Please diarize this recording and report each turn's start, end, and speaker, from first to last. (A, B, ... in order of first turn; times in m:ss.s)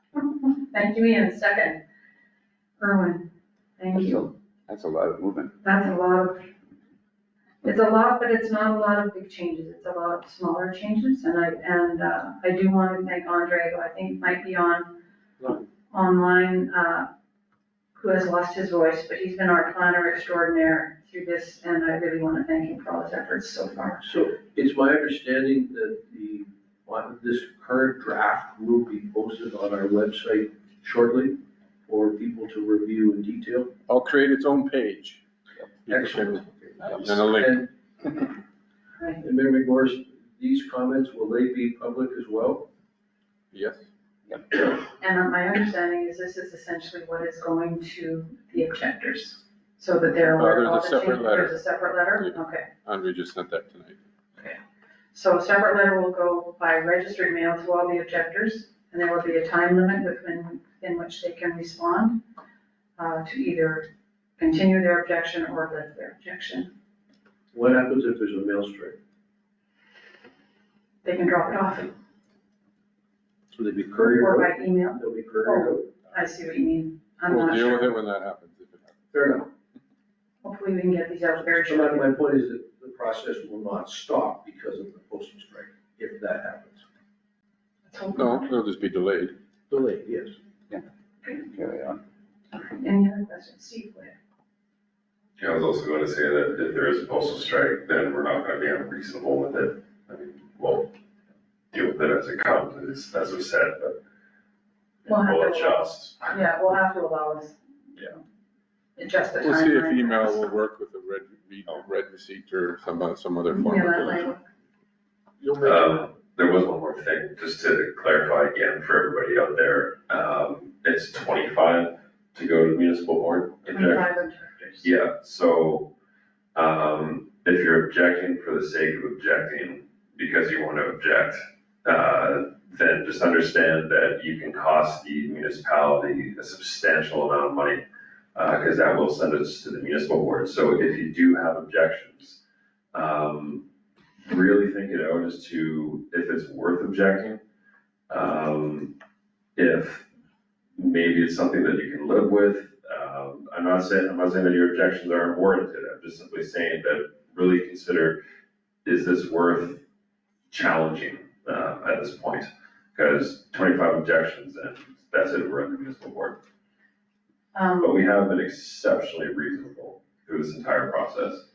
0:00.1-0:01.8 A
0:02.8-0:04.3 A
0:03.9-0:05.5 B
0:05.6-0:06.5 A
0:07.6-0:15.0 A
0:15.4-0:15.7 C
0:15.9-0:17.1 A
0:18.0-0:24.2 A
0:24.0-0:33.7 C
0:33.9-0:35.2 D
0:35.9-0:37.7 D
0:35.9-0:37.7 C
0:39.2-0:42.7 C
0:43.5-0:43.8 D
0:44.9-0:52.7 A
0:50.4-0:54.0 D
0:55.1-1:02.2 A
1:03.0-1:06.7 A
1:07.5-1:09.0 C
1:11.0-1:11.9 A
1:13.5-1:15.9 C
1:14.0-1:17.9 A
1:17.3-1:19.1 D
1:19.1-1:19.5 C
1:20.4-1:22.2 A
1:21.4-1:26.8 C
1:27.9-1:28.5 A
1:28.2-1:29.4 D
1:29.7-1:30.4 C
1:31.4-1:32.0 B
1:32.5-1:34.2 A
1:35.4-1:40.9 E
1:41.7-1:44.0 E
1:45.0-1:46.4 E
1:45.1-1:48.2 A
1:49.0-1:50.4 A
1:49.4-1:54.3 D
1:53.5-1:54.4 A
1:55.4-1:55.8 C
1:55.6-2:04.1 E
2:03.7-2:04.9 A
2:04.8-2:05.9 E
2:06.6-2:17.8 E
2:18.4-2:22.4 E
2:22.9-2:23.6 E
2:24.3-2:27.4 E
2:28.1-2:28.9 E
2:29.6-2:30.1 E
2:30.8-2:38.2 E
2:38.8-2:39.8 E
2:40.5-2:46.4 E
2:47.5-2:48.0 A
2:47.8-2:51.4 E